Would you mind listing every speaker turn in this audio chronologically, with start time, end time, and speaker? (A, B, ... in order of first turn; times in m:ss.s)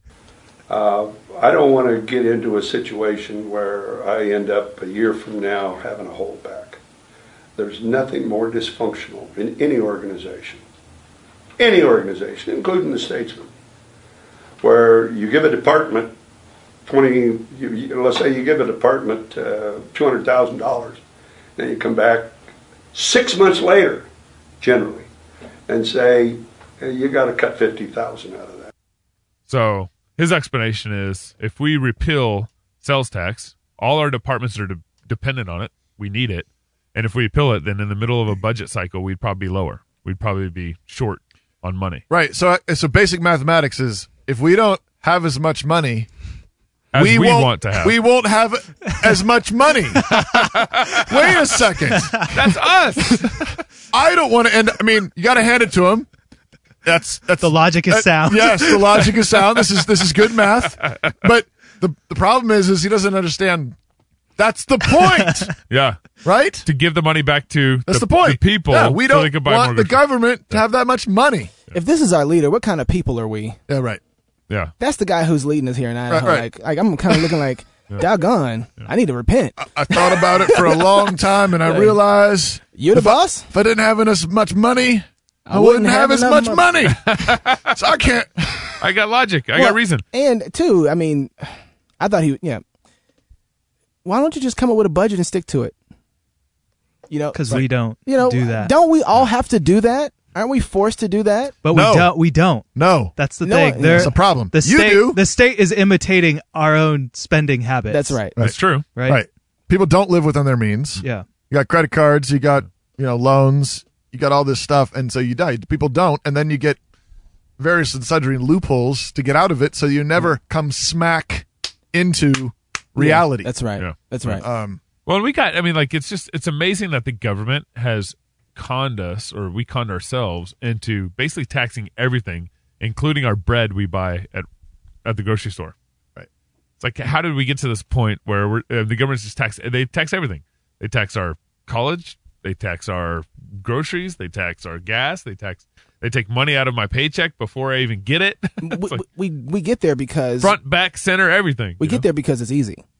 0:00.7-0:06.8 A
0:07.6-0:10.6 A
0:11.6-0:13.5 A
0:14.6-0:16.1 A
0:16.8-0:21.0 A
0:21.6-0:22.4 A
0:22.9-0:24.1 A
0:24.6-0:25.1 A
0:25.7-0:28.7 A
0:29.5-0:42.0 B
0:42.1-0:46.1 C
0:46.9-0:48.0 B
0:46.9-0:52.2 C
0:50.2-0:51.4 B
0:52.3-0:53.5 B
0:53.1-0:56.1 C
0:56.8-1:03.8 C
0:57.4-0:59.2 D
1:04.4-1:05.5 C
1:05.7-1:06.0 B
1:06.2-1:06.6 C
1:06.6-1:10.6 B
1:07.9-1:11.5 C
1:11.7-1:13.6 E
1:13.7-1:14.0 C
1:14.8-1:21.1 E
1:16.1-1:16.5 C
1:19.6-1:28.8 C
1:21.6-1:22.0 E
1:22.7-1:23.5 E
1:25.4-1:26.7 E
1:26.9-1:27.7 B
1:28.8-1:30.0 B
1:29.6-1:32.6 E
1:34.0-1:35.7 E
1:37.1-1:41.6 E
1:37.3-1:38.7 D
1:41.6-1:48.2 D
1:41.7-1:42.1 C
1:42.7-1:43.2 C
1:43.4-1:44.1 E
1:43.9-1:45.2 C
1:47.9-1:48.3 E
1:48.4-1:48.9 B
1:48.9-1:49.2 D
1:49.0-1:56.8 C
1:57.6-2:03.5 C
2:03.0-2:04.4 E
2:03.8-2:04.4 B
2:04.3-2:04.8 C
2:05.0-2:14.5 B
2:15.0-2:15.7 B
2:16.8-2:29.0 B
2:28.6-2:30.6 E
2:30.4-2:32.0 B
2:31.8-2:32.8 E